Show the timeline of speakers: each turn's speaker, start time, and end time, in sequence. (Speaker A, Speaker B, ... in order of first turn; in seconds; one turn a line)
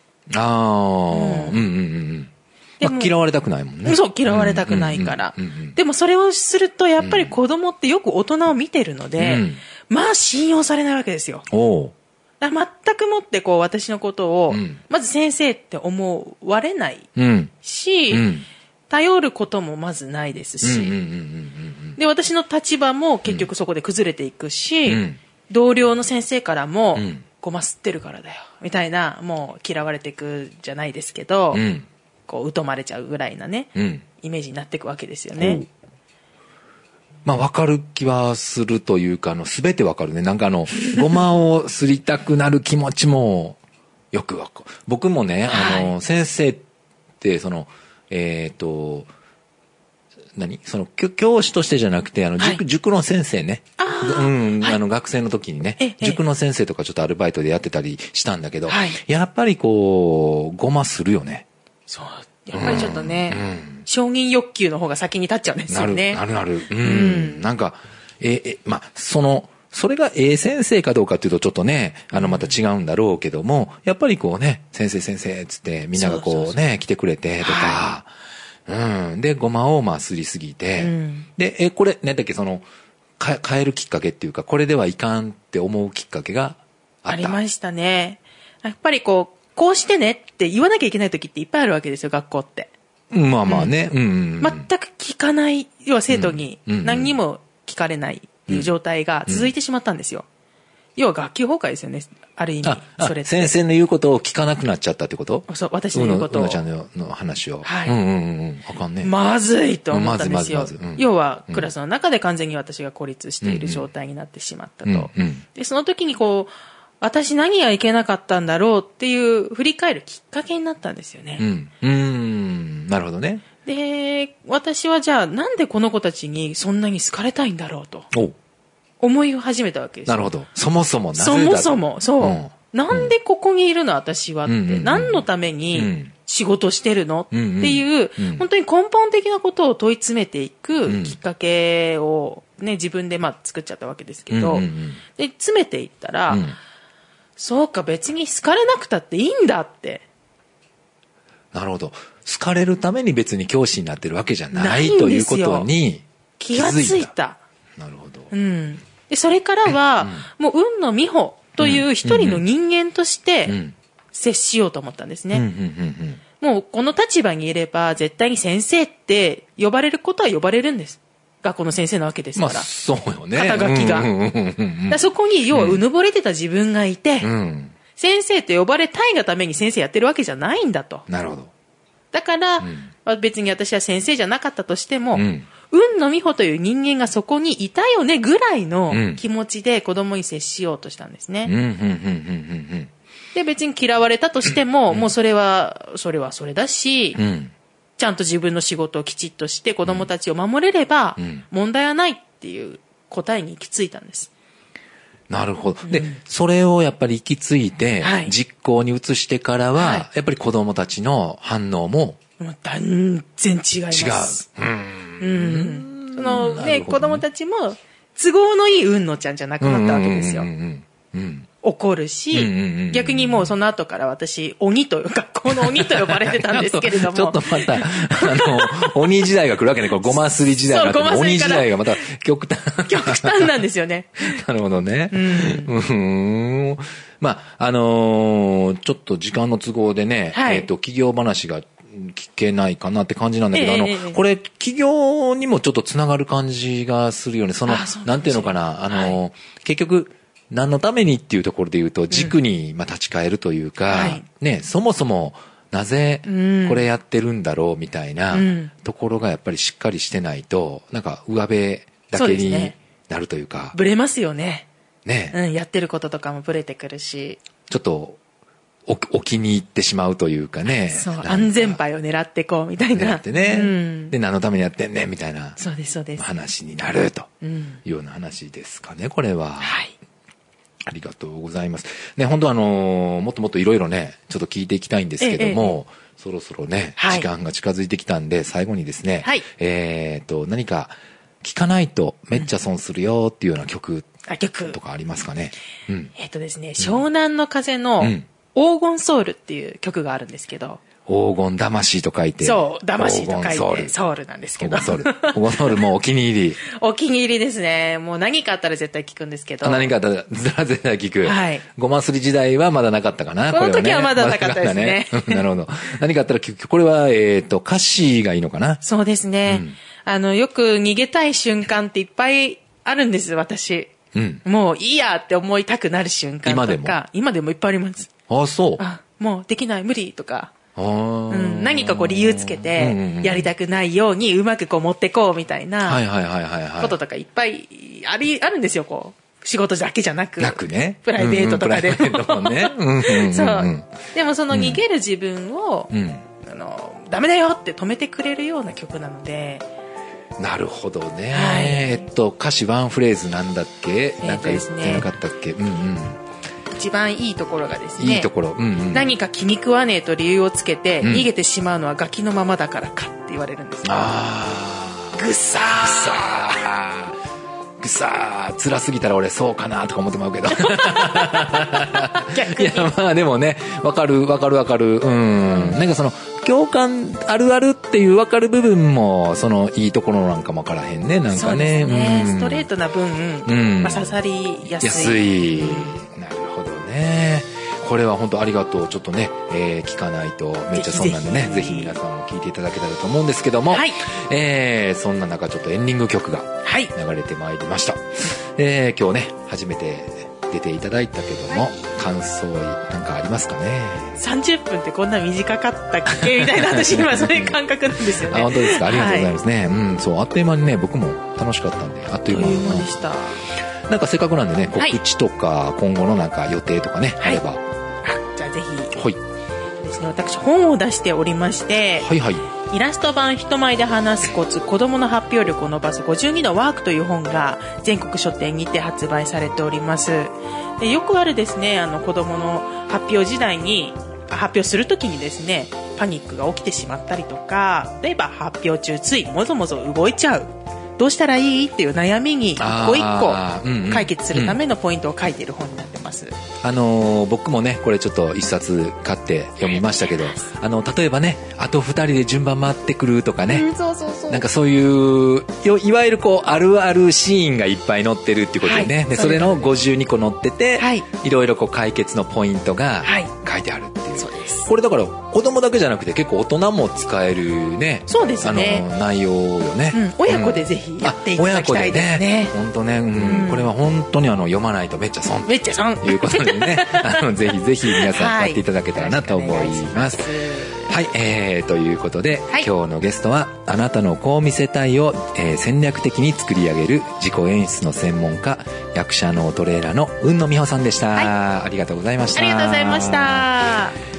Speaker A: 0.3-2.3
Speaker B: 1.1-1.6
Speaker B: 2.8-3.1
Speaker A: 2.8-5.8
Speaker B: 3.8-11.4
Speaker A: 7.0-7.3
Speaker A: 9.2-9.6
Speaker A: 11.5-11.9
Speaker B: 12.4-17.1
Speaker A: 14.5-14.8
Speaker A: 17.1-17.5
Speaker B: 17.6-18.3
Speaker A: 18.1-18.4
Speaker B: 18.9-20.9
Speaker A: 20.6-22.0
Speaker B: 22.0-31.6
Speaker A: 24.9-25.2
Speaker A: 26.9-27.2
Speaker A: 31.5-31.9
Speaker B: 32.3-35.6
Speaker A: 33.7-34.0
Speaker A: 35.4-35.7
Speaker A: 37.2-43.6
Speaker A: 44.1-46.6
Speaker B: 45.5-45.9
Speaker A: 47.2-49.1
Speaker A: 50.4-61.5
Speaker B: 53.8-54.8
Speaker B: 55.8-56.2
Speaker B: 58.7-59.0
Speaker B: 61.9-66.2
Speaker A: 62.5-63.9
Speaker A: 65.7-78.1
Speaker B: 66.8-67.4
Speaker B: 72.1-72.5
Speaker B: 76.0-76.5
Speaker B: 77.4-77.9
Speaker A: 78.7-82.7
Speaker B: 80.8-81.3
Speaker A: 83.2-87.4
Speaker B: 87.1-92.7
Speaker A: 93.1-94.7
Speaker B: 93.5-93.8
Speaker B: 94.4-100.2
Speaker A: 96.1-97.2
Speaker A: 98.5-98.7
Speaker A: 99.3-99.5
Speaker B: 101.0-103.5
Speaker A: 102.6-109.1
Speaker B: 105.5-106.6
Speaker B: 107.6-108.0
Speaker B: 109.0-121.4
Speaker A: 109.9-111.7
Speaker A: 113.4-113.8
Speaker A: 114.8-115.4
Speaker A: 121.4-123.4
Speaker B: 123.6-128.1
Speaker B: 129.0-130.3
Speaker A: 130.1-133.1
Speaker B: 131.2-146.4
Speaker A: 134.5-136.1
Speaker A: 137.3-138.4
Speaker A: 140.8-141.2
Speaker A: 144.3-145.0
Speaker A: 146.3-146.6
Speaker B: 147.4-150.0
Speaker A: 151.5-157.1
Speaker B: 154.5-155.7
Speaker B: 156.4-157.4
Speaker A: 157.8-158.3
Speaker B: 158.3-163.5
Speaker A: 160.0-160.3
Speaker A: 161.6-162.4
Speaker A: 163.4-163.7
Speaker B: 164.1-165.4
Speaker A: 165.3-166.2
Speaker B: 166.4-172.7
Speaker A: 172.3-175.8
Speaker B: 173.3-174.1
Speaker B: 174.9-177.3
Speaker A: 177.2-177.7
Speaker B: 177.9-181.0
Speaker A: 181.1-181.5
Speaker B: 182.1-191.5
Speaker A: 182.6-182.9
Speaker A: 185.1-185.5
Speaker A: 188.9-189.2
Speaker A: 191.4-192.9
Speaker B: 193.3-197.2
Speaker A: 197.1-197.5
Speaker B: 198.0-204.3
Speaker A: 201.2-201.4
Speaker A: 205.3-212.2
Speaker B: 205.8-206.2
Speaker B: 208.0-208.3
Speaker B: 209.8-210.1
Speaker B: 212.4-214.4
Speaker A: 213.9-217.2
Speaker B: 215.2-220.5
Speaker A: 219.6-221.5
Speaker B: 221.6-229.0
Speaker A: 222.3-223.5
Speaker A: 225.5-233.6
Speaker B: 230.0-231.8
Speaker B: 232.9-234.3
Speaker A: 234.2-263.8
Speaker B: 235.1-235.7
Speaker B: 240.3-240.7
Speaker B: 243.5-244.2
Speaker B: 247.7-249.2
Speaker B: 253.9-254.2
Speaker B: 256.2-256.9
Speaker B: 258.3-258.7
Speaker B: 262.1-262.7
Speaker B: 263.7-264.7
Speaker A: 265.1-265.4
Speaker B: 265.3-267.4
Speaker A: 267.7-268.2
Speaker A: 268.9-271.8
Speaker B: 270.9-274.1
Speaker A: 272.9-275.6
Speaker B: 275.6-276.2
Speaker A: 276.1-277.3
Speaker B: 277.4-277.8
Speaker A: 277.8-279.8
Speaker B: 279.6-279.9
Speaker A: 280.9-294.1
Speaker B: 285.2-285.8
Speaker B: 287.0-287.3
Speaker B: 294.2-294.8
Speaker A: 294.7-296.1
Speaker B: 296.1-300.8
Speaker A: 298.0-298.2
Speaker A: 301.1-303.9
Speaker B: 302.4-305.8
Speaker A: 304.6-306.6
Speaker B: 306.6-309.9
Speaker A: 309.6-318.8
Speaker B: 311.2-311.6
Speaker B: 313.5-315.4
Speaker B: 318.8-323.9
Speaker A: 319.4-319.8
Speaker A: 324.1-324.4
Speaker B: 324.4-328.1
Speaker A: 326.4-327.0
Speaker A: 328.3-328.8
Speaker B: 328.8-330.5
Speaker A: 330.8-333.5
Speaker B: 331.3-336.0
Speaker A: 335.8-336.9
Speaker B: 336.8-349.6
Speaker A: 340.4-344.8
Speaker A: 345.9-346.2
Speaker A: 350.4-356.2
Speaker B: 351.3-352.0
Speaker B: 354.2-355.1
Speaker B: 356.7-358.3
Speaker A: 358.0-359.1
Speaker B: 358.9-364.1
Speaker A: 361.0-361.3
Speaker A: 363.8-367.1
Speaker B: 365.1-366.4
Speaker A: 367.8-382.6
Speaker B: 370.5-372.9
Speaker B: 375.5-375.8
Speaker B: 381.3-386.0
Speaker A: 383.4-384.1
Speaker A: 384.8-404.2
Speaker B: 390.7-391.9
Speaker B: 393.7-394.0
Speaker B: 396.6-396.9
Speaker B: 404.2-409.3
Speaker A: 406.1-407.6
Speaker A: 408.1-413.0
Speaker B: 412.3-413.4
Speaker A: 413.9-417.6
Speaker B: 418.0-418.9
Speaker A: 418.9-419.2
Speaker B: 419.8-446.3
Speaker A: 422.0-422.5
Speaker A: 442.6-444.6
Speaker A: 446.6-453.7
Speaker B: 449.6-450.5
Speaker B: 453.5-454.4
Speaker A: 454.3-480.3
Speaker B: 458.6-459.7
Speaker B: 460.8-461.1
Speaker B: 463.0-463.3
Speaker B: 464.2-464.7
Speaker B: 468.1-468.9
Speaker B: 469.9-472.5
Speaker B: 473.2-473.7
Speaker B: 475.5-477.3
Speaker B: 477.9-480.9
Speaker A: 480.9-493.4
Speaker B: 492.3-494.0